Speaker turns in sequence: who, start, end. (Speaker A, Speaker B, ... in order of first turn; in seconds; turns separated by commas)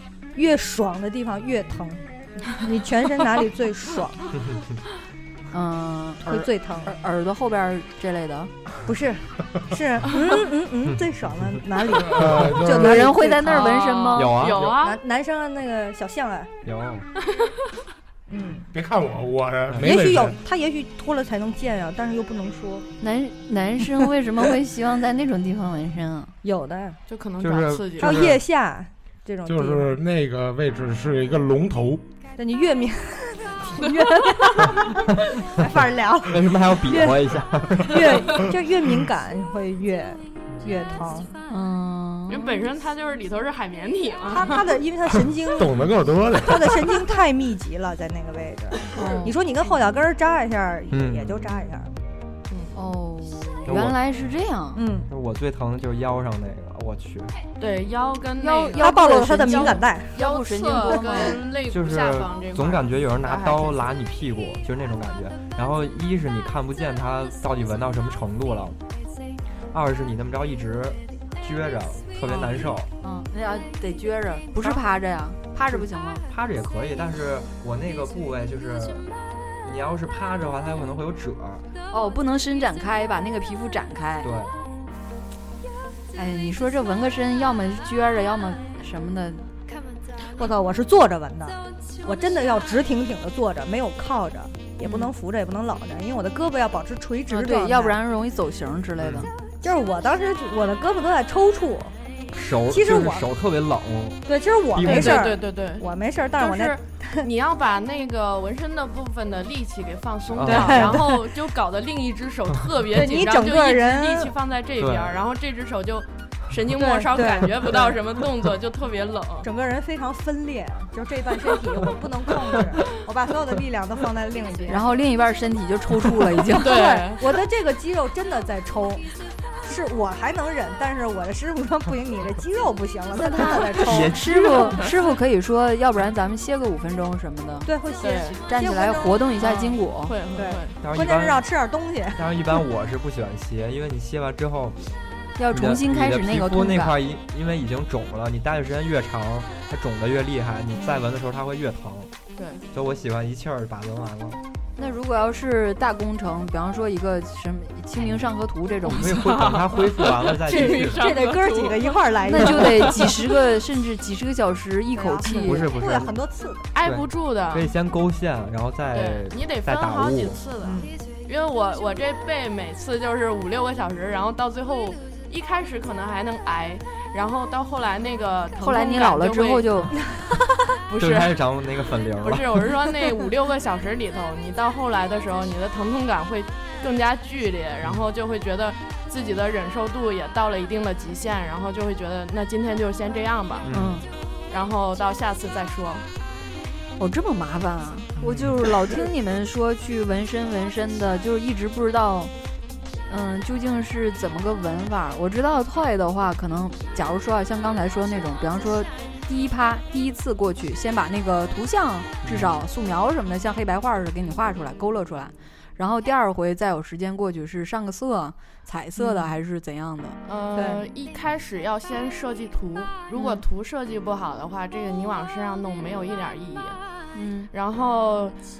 Speaker A: 0.3-4.3, Speaker B: 5.5-8.5, Speaker A: 6.2-6.9, Speaker A: 8.8-13.7, Speaker C: 11.9-13.2, Speaker B: 12.7-14.4, Speaker D: 13.5-15.0, Speaker E: 14.1-14.8, Speaker A: 14.7-16.5, Speaker E: 16.6-17.1, Speaker A: 18.3-18.7, Speaker C: 18.7-20.4, Speaker E: 19.7-19.9, Speaker A: 19.8-22.9, Speaker B: 23.0-26.3, Speaker A: 26.4-27.0, Speaker D: 27.1-28.3, Speaker E: 27.4-28.4, Speaker A: 28.0-29.9, Speaker C: 29.5-32.0, Speaker A: 32.4-41.3, Speaker E: 36.3-38.4, Speaker B: 41.5-42.6, Speaker D: 42.3-44.8, Speaker A: 44.3-45.9, Speaker C: 45.5-47.0, Speaker A: 46.4-51.9, Speaker D: 49.0-49.3, Speaker B: 49.0-49.4, Speaker E: 50.9-51.6, Speaker B: 52.7-54.8, Speaker E: 53.7-54.0, Speaker A: 54.7-55.1, Speaker E: 55.1-57.4, Speaker D: 57.6-63.9, Speaker B: 58.4-61.4, Speaker A: 58.8-60.2, Speaker E: 61.7-68.8, Speaker E: 69.7-72.9, Speaker B: 73.0-76.2, Speaker E: 75.7-79.0, Speaker E: 79.6-81.7, Speaker B: 81.9-84.3, Speaker E: 84.2-84.5, Speaker B: 86.1-89.5, Speaker A: 90.2-98.0, Speaker B: 97.3-99.3, Speaker E: 99.0-99.3, Speaker A: 99.6-101.9, Speaker E: 102.3-105.3, Speaker A: 102.7-103.2, Speaker A: 104.2-107.3, Speaker D: 104.8-119.5, Speaker E: 110.3-111.0, Speaker A: 110.5-111.2, Speaker A: 112.9-114.3, Speaker E: 114.8-115.2, Speaker A: 116.7-117.8, Speaker A: 119.4-124.9, Speaker B: 124.7-126.8, Speaker A: 126.5-129.1, Speaker D: 126.6-127.2, Speaker A: 129.6-134.2, Speaker B: 133.2-137.7, Speaker E: 133.8-134.9, Speaker A: 137.6-139.2, Speaker D: 138.0-138.4, Speaker B: 138.5-140.1, Speaker D: 139.4-140.8, Speaker A: 140.3-142.2, Speaker E: 140.8-141.4, Speaker E: 142.1-144.8, Speaker B: 145.4-147.0, Speaker E: 145.5-152.1, Speaker D: 152.3-152.6, Speaker E: 152.7-154.4, Speaker B: 154.8-159.2, Speaker E: 158.8-161.0, Speaker D: 159.1-163.1, Speaker A: 160.4-163.1, Speaker B: 162.3-165.7, Speaker A: 164.9-166.7, Speaker E: 165.3-166.2, Speaker D: 166.7-167.7, Speaker E: 166.8-170.4, Speaker D: 168.9-179.8, Speaker A: 170.6-170.9, Speaker B: 178.6-180.0, Speaker D: 180.9-181.4, Speaker E: 181.0-182.9, Speaker D: 182.2-193.7, Speaker E: 193.6-194.0, Speaker B: 193.7-194.0, Speaker D: 194.5-196.1, Speaker B: 197.0-202.3, Speaker E: 198.2-198.6, Speaker B: 203.1-220.2, Speaker E: 212.2-212.6, Speaker A: 219.0-219.3, Speaker D: 220.2-226.8, Speaker A: 220.5-220.8, Speaker B: 223.1-223.4, Speaker B: 227.1-227.5, Speaker D: 227.5-228.4